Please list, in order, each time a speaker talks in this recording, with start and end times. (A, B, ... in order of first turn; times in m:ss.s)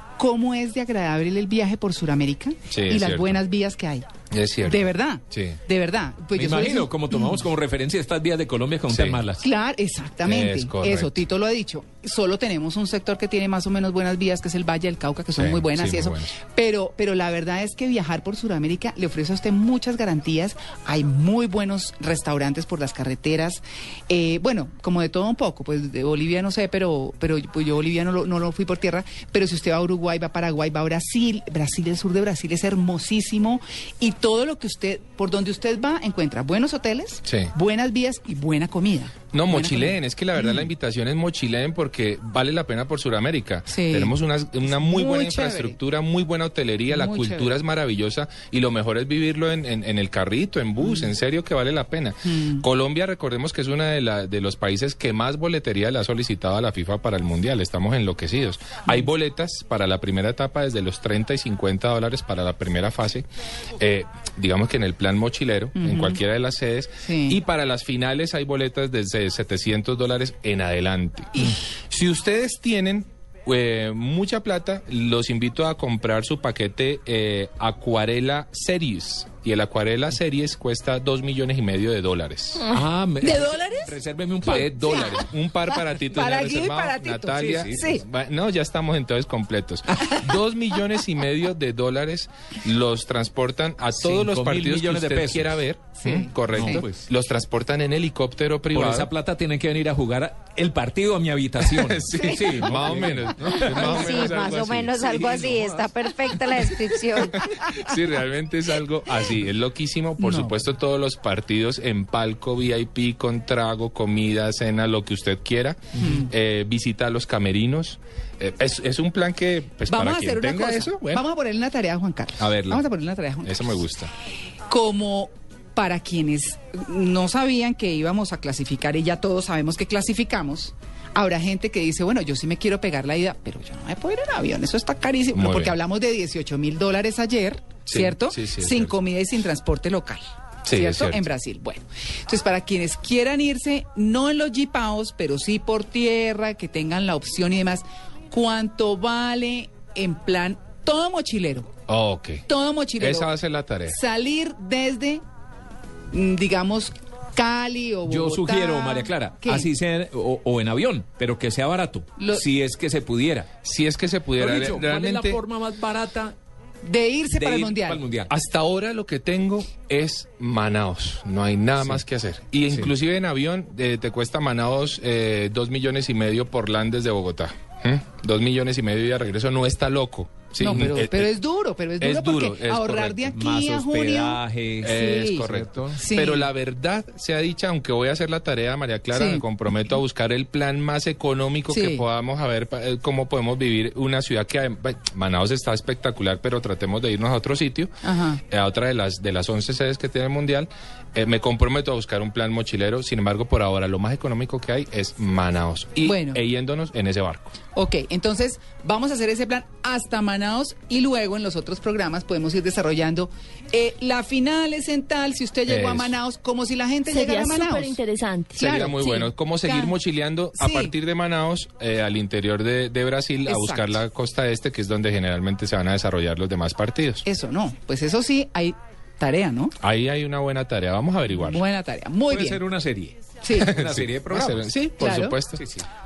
0:00.2-0:04.1 A
0:02.7-0:03.4 B
0:04.3-0:05.6 B
0:04.6-0:07.5 A
0:06.3-0:09.4 C
0:08.9-0:09.2 B
0:09.4-0:40.7 A
0:10.2-0:11.2 B
0:15.3-0:16.4 B
0:37.2-0:37.5 B
0:39.3-1:03.2 B
0:43.7-0:44.2 A
0:44.7-0:45.8 A
0:46.9-0:47.5 A
0:50.8-0:51.1 A
0:52.3-0:52.6 A
1:03.8-1:22.7 B
1:05.8-1:06.2 A
1:07.1-1:07.4 A
1:22.7-1:25.2 C
1:23.2-1:24.0 A
1:24.4-1:39.1 B
1:24.5-1:28.0 A
1:27.3-1:28.0 C
1:33.9-1:35.6 C
1:36.0-1:36.9 A
1:36.5-1:37.0 C
1:38.7-1:44.4 C
1:41.6-1:45.9 B
1:42.2-1:42.7 A
1:43.8-1:47.4 D
1:45.2-1:45.5 C
1:46.4-2:01.2 B
1:50.2-1:50.6 A
1:56.0-1:56.3 A
1:59.9-2:03.8 A
2:02.4-2:02.9 B
2:03.4-2:04.1 B
2:04.7-2:31.7 A
2:15.3-2:15.8 B
2:17.9-2:19.0 B
2:20.6-2:21.2 B
2:31.9-2:32.5 B
2:32.5-2:33.3 A
2:33.0-2:34.0 B
2:33.9-2:35.2 A
2:36.1-2:39.7 A
2:38.0-2:43.5 C
2:42.2-2:42.5 A
2:43.6-2:45.4 B
2:44.4-2:46.4 C
2:46.8-2:48.1 A
2:47.3-2:48.3 C
2:48.3-3:01.3 B
3:00.6-3:05.5 A
3:02.0-3:03.3 B
3:03.3-3:06.0 C
3:04.8-3:18.0 B
3:06.0-3:06.5 A
3:09.1-3:09.4 A
3:11.7-3:12.0 A
3:18.0-3:18.4 A
3:18.5-3:27.5 B
3:26.0-3:26.4 A
3:27.8-3:38.0 A
3:35.7-3:36.2 B
3:37.1-3:39.3 E
3:38.6-3:47.2 B
3:38.6-3:39.1 A
3:39.6-3:40.0 A
3:40.6-3:40.9 A
3:43.4-3:44.0 A
3:47.2-3:49.7 A
3:49.8-3:51.6 B
3:51.3-3:52.6 A
3:52.3-3:54.7 C
3:53.4-3:53.7 A
3:53.6-3:55.6 B
3:55.0-3:55.4 A
3:55.6-3:55.9 C